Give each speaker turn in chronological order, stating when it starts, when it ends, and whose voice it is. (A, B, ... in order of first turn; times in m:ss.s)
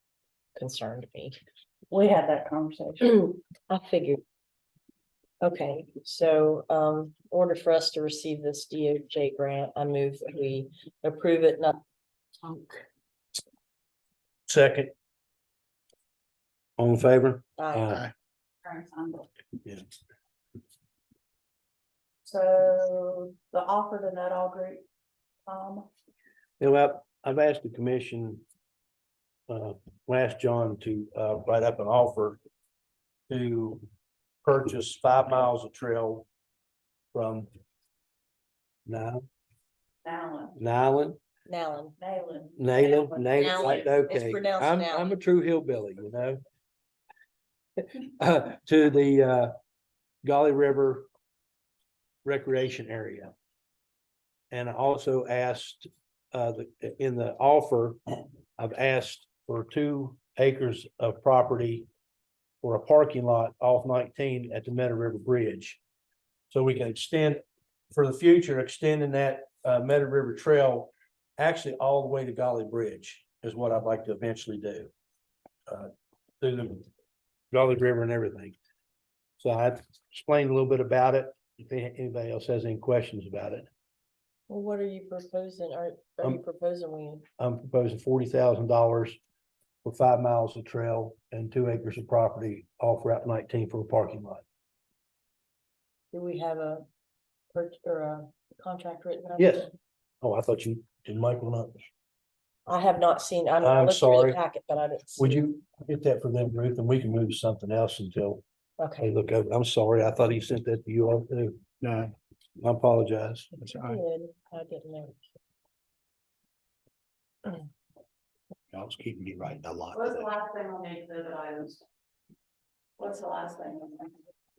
0:00.6-0:01.4 A
0:01.9-0:03.1 B
0:03.0-0:04.2 A
0:05.4-0:11.8 A
0:14.5-0:14.9 C
0:16.8-0:18.0 C
0:17.6-0:18.0 A
0:18.6-0:19.3 B
0:22.2-0:24.8 B
0:25.5-0:25.9 B
0:26.6-0:28.4 C
0:29.5-0:32.4 C
0:33.3-0:33.8 C
0:34.4-0:36.2 C
0:37.1-0:37.5 C
0:38.8-0:39.2 C
0:40.0-0:40.6 B
0:40.6-0:41.2 C
0:41.5-0:42.0 A
0:42.0-0:43.8 B
0:42.6-0:46.4 C
0:43.4-0:45.1 A
0:48.2-0:49.5 C
0:50.2-0:51.1 C
0:52.2-0:53.3 C
0:54.5-0:58.0 C
0:58.6-1:01.9 C
1:02.6-1:05.8 C
1:06.5-1:14.9 C
1:15.7-1:16.8 C
1:17.5-1:18.5 C
1:19.4-1:23.7 C
1:24.5-1:27.2 A
1:27.4-1:29.2 C
1:29.8-1:34.4 C
1:36.1-1:36.8 A
1:37.5-1:39.7 A
1:39.4-1:39.7 C
1:40.2-1:41.7 C
1:42.7-1:45.4 A
1:43.6-1:44.4 C
1:45.2-1:48.4 C
1:48.8-1:49.1 A
1:49.0-1:51.6 C
1:51.8-1:52.1 D
1:52.6-1:53.5 C
1:53.6-1:54.0 D
1:53.8-1:55.2 A
1:58.7-2:00.2 D
1:59.9-2:01.8 B
2:03.0-2:04.2 B